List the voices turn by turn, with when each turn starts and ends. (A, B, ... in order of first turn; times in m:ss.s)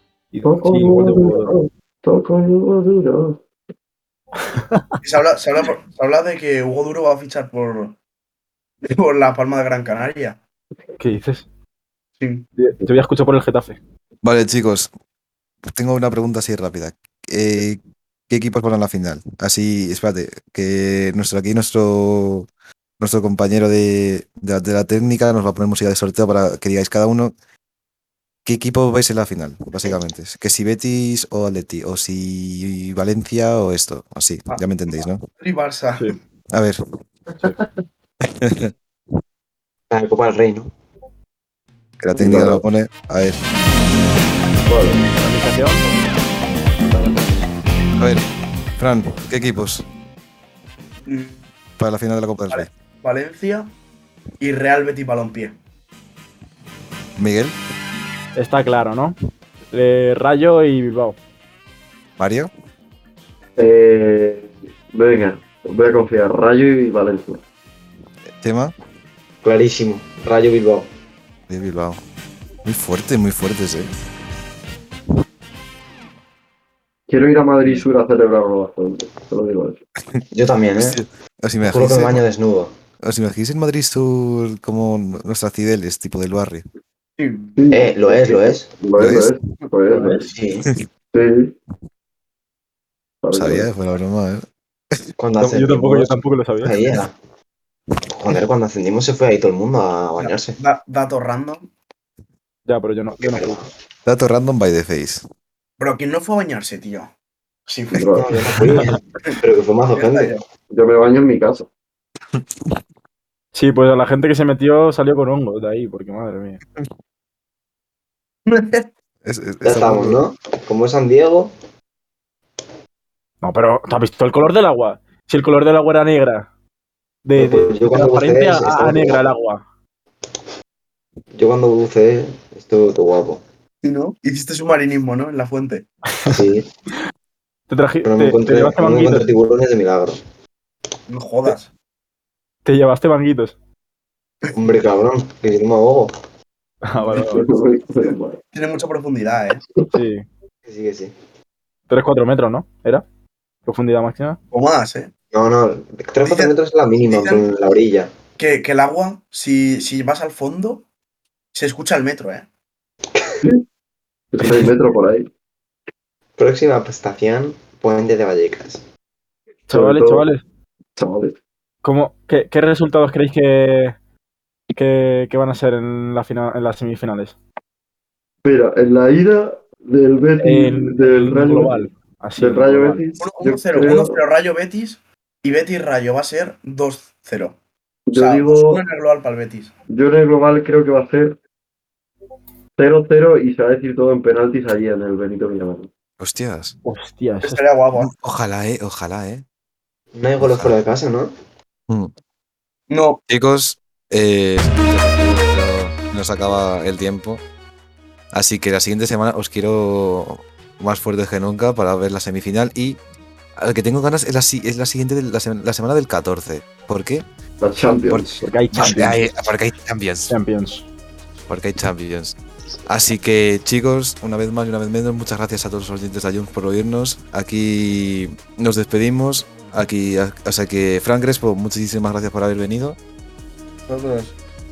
0:00.3-0:01.6 A
0:00.4-0:03.4 B
0:04.4-0:05.0 A
0:05.0-0:08.0 C
0:08.8-0:10.4 C
0:11.0-0:11.4 A
0:12.2-0:12.5 C
0:12.6-0:13.8 A
0:14.2-0:14.9 D
0:15.6-0:22.5 D
0:23.0-0:27.3 D
0:28.4-0:35.2 D
0:35.4-0:36.1 C
0:36.5-0:36.8 D
0:38.2-0:38.7 D
0:39.9-0:40.7 E
0:42.0-0:43.4 D
0:42.1-0:42.6 B
0:44.6-0:45.2 B
0:45.2-0:45.9 A
0:46.9-0:47.5 B
0:48.0-0:48.3 D
0:48.8-0:49.9 D
0:51.0-0:51.4 C
0:51.8-0:52.7 D
0:52.5-0:53.7 C
0:54.4-0:55.6 C
0:57.2-0:57.6 D
0:58.3-0:59.2 A
0:59.7-1:01.2 A
1:02.2-1:02.5 D
1:03.6-1:07.4 B
1:08.3-1:08.7 D
1:09.4-1:10.9 E
1:11.5-1:12.0 D
1:12.6-1:13.9 D
1:17.1-1:19.8 B
1:20.3-1:21.0 E
1:20.8-1:22.2 D
1:21.6-1:22.7 E
1:23.0-1:26.6 D
1:27.2-1:27.6 C
1:27.6-1:30.3 B
1:27.7-1:28.7 E
1:29.0-1:29.3 D
1:29.9-1:30.3 A
1:30.3-1:30.7 E
1:31.1-1:31.5 B
1:33.2-1:33.7 B
1:33.3-1:34.4 D
1:35.2-1:37.1 E
1:35.4-1:36.7 A
1:38.1-1:40.6 E
1:40.2-1:41.7 C
1:42.7-1:43.6 A
1:43.2-1:43.7 E
1:44.0-1:45.2 D
1:45.8-1:47.1 C
1:47.7-1:48.0 C
1:47.9-1:48.4 B
1:48.1-1:50.4 E
1:49.9-1:50.4 C
1:50.7-1:51.7 B
1:53.5-1:56.6 A
1:58.4-1:58.9 C
1:59.2-2:00.2 D
1:59.6-2:01.5 E
2:03.4-2:06.5 A
2:07.2-2:09.6 A
2:07.4-2:09.2 E
2:11.3-2:13.4 E
2:13.8-2:15.9 C
2:16.2-2:16.7 E
2:17.7-2:19.3 A
2:18.0-2:20.2 E
2:21.1-2:21.7 C
2:22.6-2:23.6 A
2:24.5-2:26.1 E
2:26.8-2:27.4 A
2:27.1-2:28.4 B
2:28.5-2:29.6 C
2:29.9-2:30.2 A
2:30.6-2:31.1 E
2:31.9-2:33.0 A
2:33.6-2:34.4 A
2:34.5-2:35.1 C
2:35.3-2:38.1 E
2:36.2-2:37.4 C
2:38.4-2:40.8 C
2:41.5-2:42.4 C
2:43.1-2:43.4 E
2:44.3-2:45.3 B
2:46.4-2:48.8 E
2:49.7-2:50.2 B
2:49.7-2:50.4 A
2:51.0-2:51.4 B
2:51.8-2:54.0 A
2:54.7-2:57.4 A
2:58.4-3:04.2 B
3:00.4-3:03.0 A
3:03.2-3:07.6 C
3:08.1-3:08.8 B
3:08.1-3:09.7 C
3:09.9-3:11.4 B
3:12.8-3:15.9 B
3:16.2-3:16.7 D
3:16.8-3:17.6 A
3:17.4-3:18.1 C
3:17.9-3:19.4 D
3:20.1-3:21.3 E
3:20.4-3:20.7 D
3:22.9-3:23.2 C
3:23.3-3:27.4 D
3:28.3-3:33.0 D
3:33.6-3:37.2 D
3:37.6-3:39.1 B
3:38.1-3:40.3 D
3:38.4-3:39.2 A
3:40.3-3:40.9 A
3:41.5-3:53.0 D
3:53.9-3:54.3 C